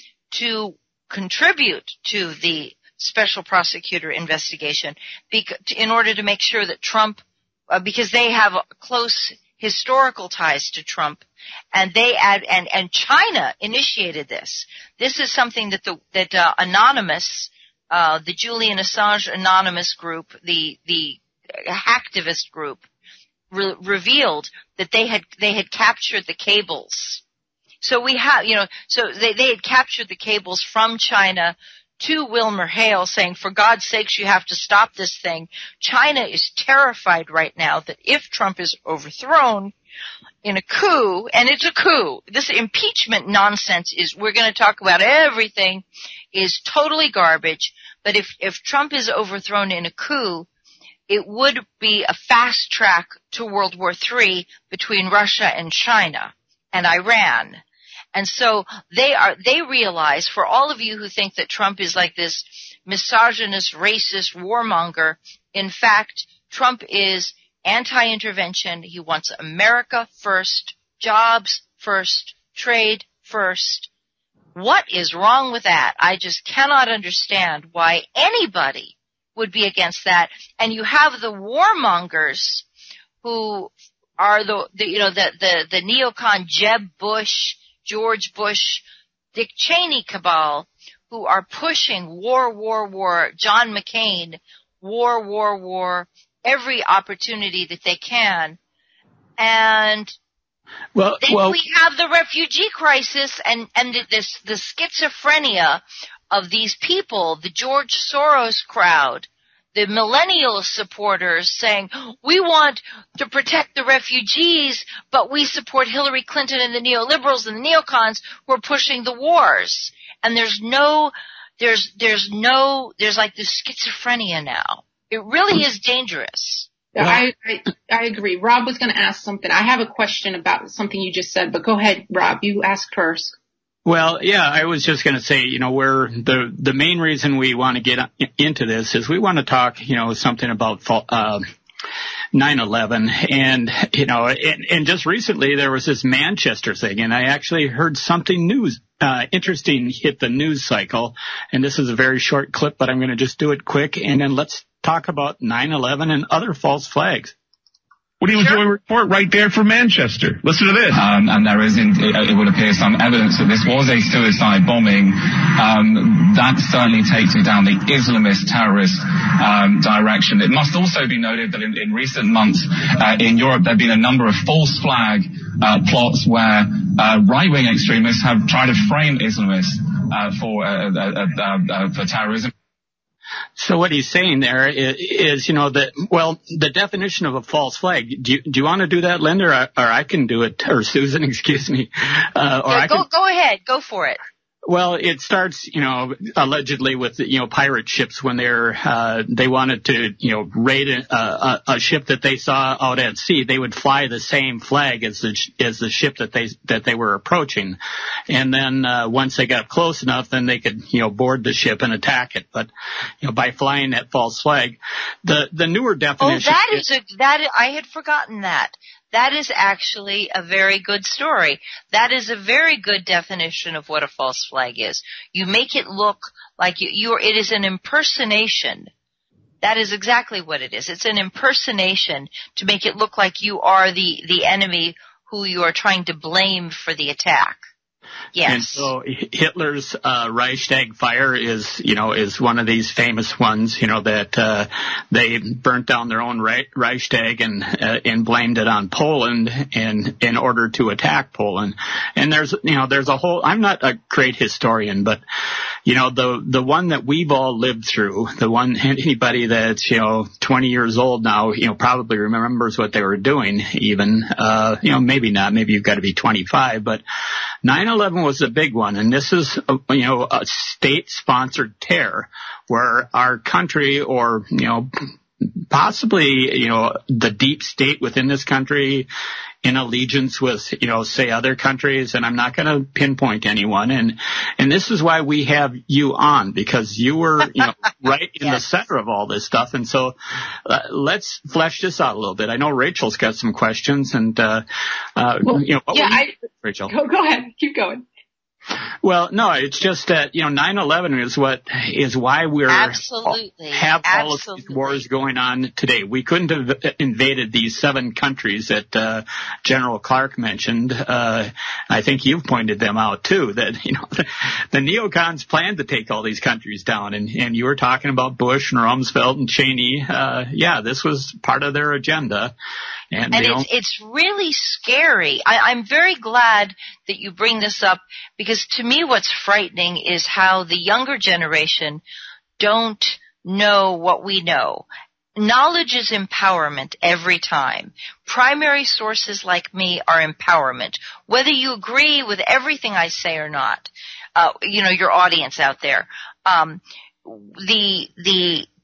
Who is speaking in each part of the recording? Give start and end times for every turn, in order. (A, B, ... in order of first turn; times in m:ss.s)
0:00.3-0:22.8 A
0:23.5-0:27.2 A
0:27.8-0:39.7 A
0:40.4-0:50.5 A
0:51.1-0:57.6 A
0:58.1-1:13.9 A
1:14.5-1:22.6 A
1:23.2-1:38.6 A
1:39.4-1:40.1 A
1:41.0-1:41.6 B
1:41.2-2:06.7 A
2:06.9-2:13.4 C
2:13.8-2:21.4 B
2:22.3-2:37.3 B
2:38.2-2:41.0 D
2:40.9-3:02.5 E
3:03.6-3:13.0 B
3:12.7-3:14.2 A
3:14.6-3:27.8 B
3:28.3-3:32.7 B
3:33.2-3:36.8 B
3:36.2-3:48.9 A
3:49.6-3:57.6 A
3:58.3-3:58.9 A
3:58.4-4:15.2 B
4:15.8-4:27.0 B
4:27.6-4:34.9 B
4:35.7-4:39.1 B
4:39.6-4:54.6 B
4:55.2-4:56.9 B
4:55.4-4:56.3 C
4:56.9-4:58.0 C
4:59.0-5:22.5 B
5:02.7-5:05.0 A
5:23.1-5:23.6 B
5:23.3-5:32.0 A
5:32.6-5:48.7 A